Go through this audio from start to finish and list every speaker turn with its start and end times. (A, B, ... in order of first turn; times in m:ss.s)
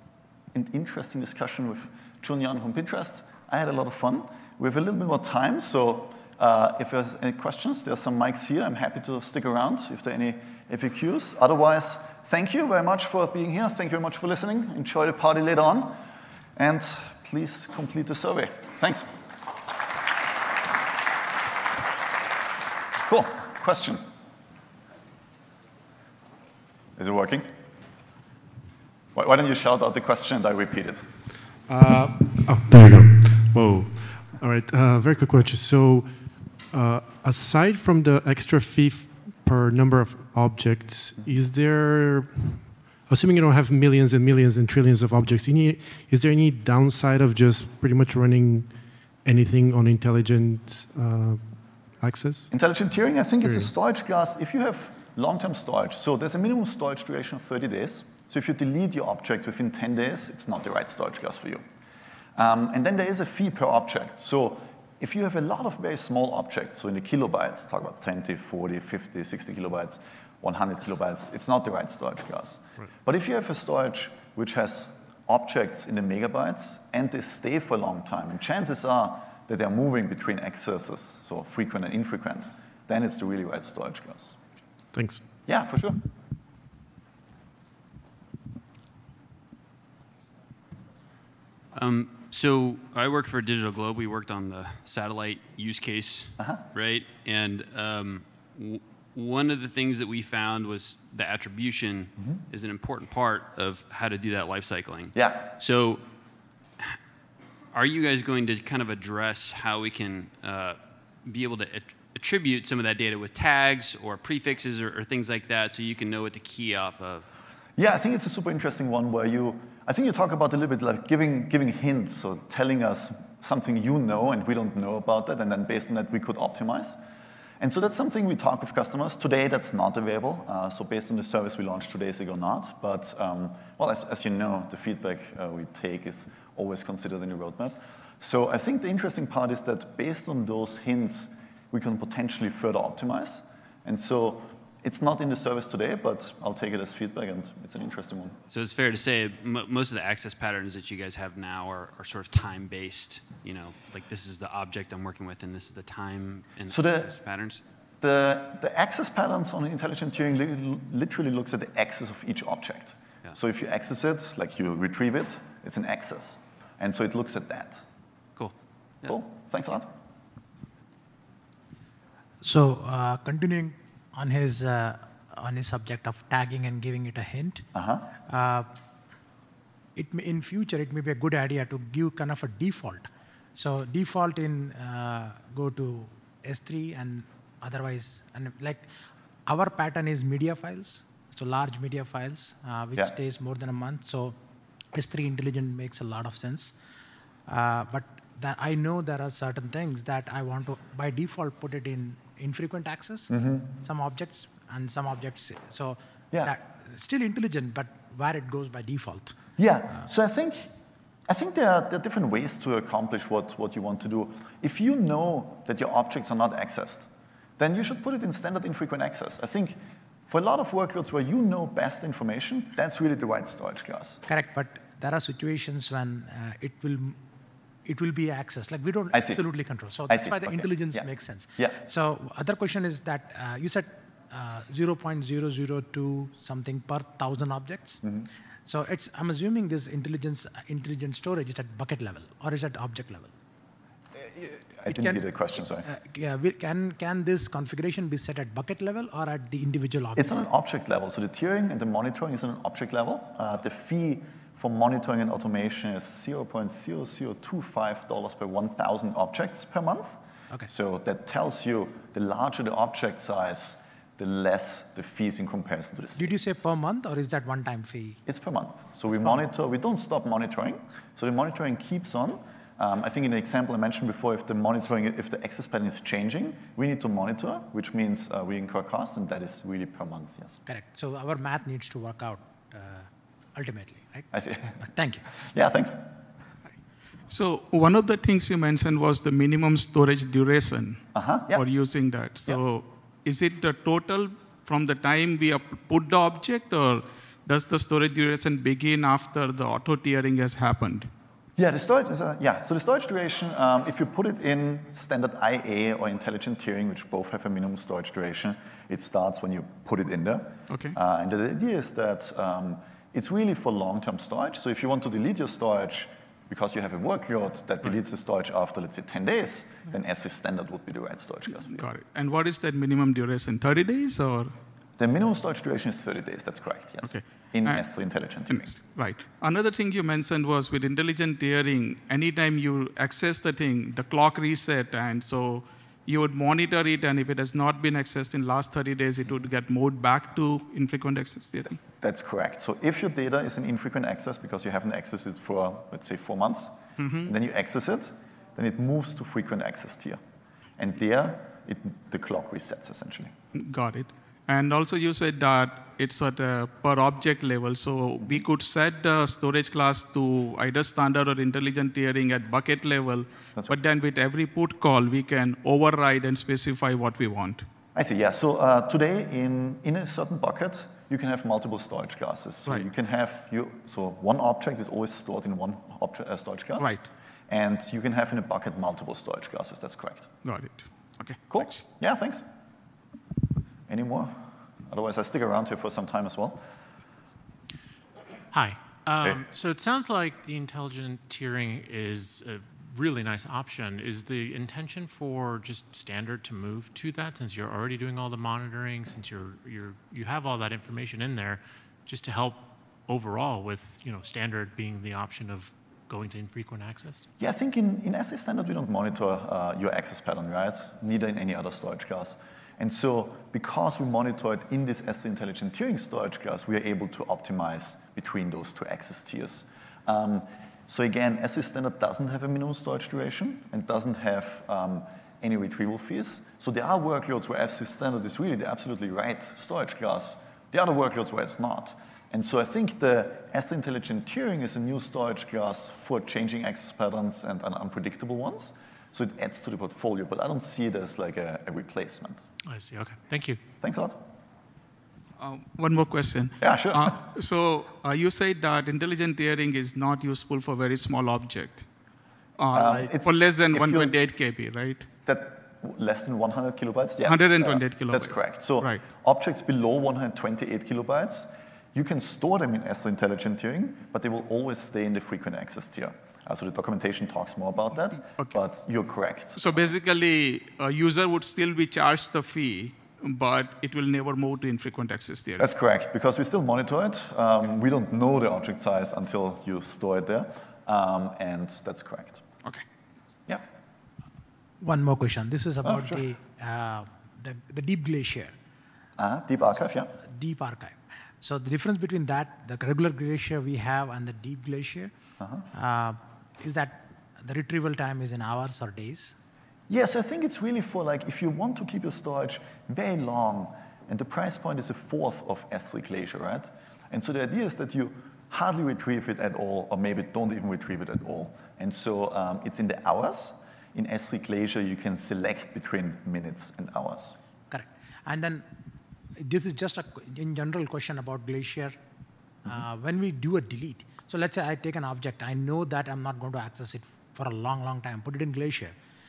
0:00.5-0:16.0 A
0:16.6-0:19.1 A
0:23.0-0:24.0 A
0:27.0-0:27.5 A
0:29.2-0:31.1 A
0:31.7-0:52.5 B
0:52.5-1:01.6 A
0:53.4-0:53.7 B
1:02.4-1:24.4 A
1:24.9-1:25.2 B
1:25.5-1:26.0 A
1:31.7-1:46.0 C
1:45.1-1:45.5 A
1:47.7-1:57.3 C
1:57.8-2:07.0 A
2:07.6-2:28.4 A
2:28.5-2:37.6 C
2:36.7-2:37.1 A
2:38.0-2:47.8 A
2:48.4-2:49.1 C
2:49.0-2:49.9 A
2:52.4-2:57.6 D
2:57.8-2:58.1 A
2:58.3-2:58.7 D
3:00.0-3:08.8 D
3:09.5-3:14.4 D
3:14.9-3:16.7 D
3:17.5-3:29.4 D
3:23.3-3:23.7 A
3:29.6-3:30.7 A
3:31.3-3:44.2 A
3:44.3-3:47.2 D
3:47.8-3:58.0 D
3:49.1-3:49.4 A
3:50.1-3:51.8 A
3:58.0-3:58.3 A
3:58.7-4:03.3 D
4:04.2-4:05.9 A
4:04.9-4:05.2 D
4:05.8-4:10.4 D
4:10.2-4:26.4 A
4:26.2-4:28.2 D
4:28.3-4:40.6 A
4:40.7-4:45.2 D
4:44.3-4:46.1 A
4:47.3-5:01.1 E
4:51.1-4:51.6 A
5:01.6-5:21.9 A
5:10.7-5:11.0 E
5:21.6-5:24.5 E
5:25.0-5:28.7 A
5:27.0-5:27.9 E
5:28.5-5:41.8 E
5:42.0-5:50.2 A
5:47.0-5:47.3 E
5:50.8-5:53.3 A
5:53.6-6:07.7 E
6:08.0-6:16.9 A
6:16.8-6:17.0 E
6:17.5-6:20.3 A
6:20.4-6:21.8 E
6:21.5-6:22.4 A
6:23.9-6:26.6 A
6:28.5-6:47.3 F
6:47.4-7:22.4 A
7:22.7-7:23.6 F
7:23.8-7:24.2 A
7:25.4-7:31.9 E
7:26.6-7:27.3 A
7:32.6-7:35.1 E
7:32.7-7:34.2 A
7:35.2-7:49.9 A
7:37.2-7:39.0 E
7:49.6-7:55.7 E
7:55.6-8:02.4 A
8:04.8-8:08.5 D
8:05.8-8:06.2 A
8:09.2-8:10.2 A
8:10.2-8:15.1 D
8:15.7-8:19.3 D
8:19.9-8:37.4 A
8:37.7-8:38.7 D
8:39.4-8:42.0 D
8:42.6-8:49.0 D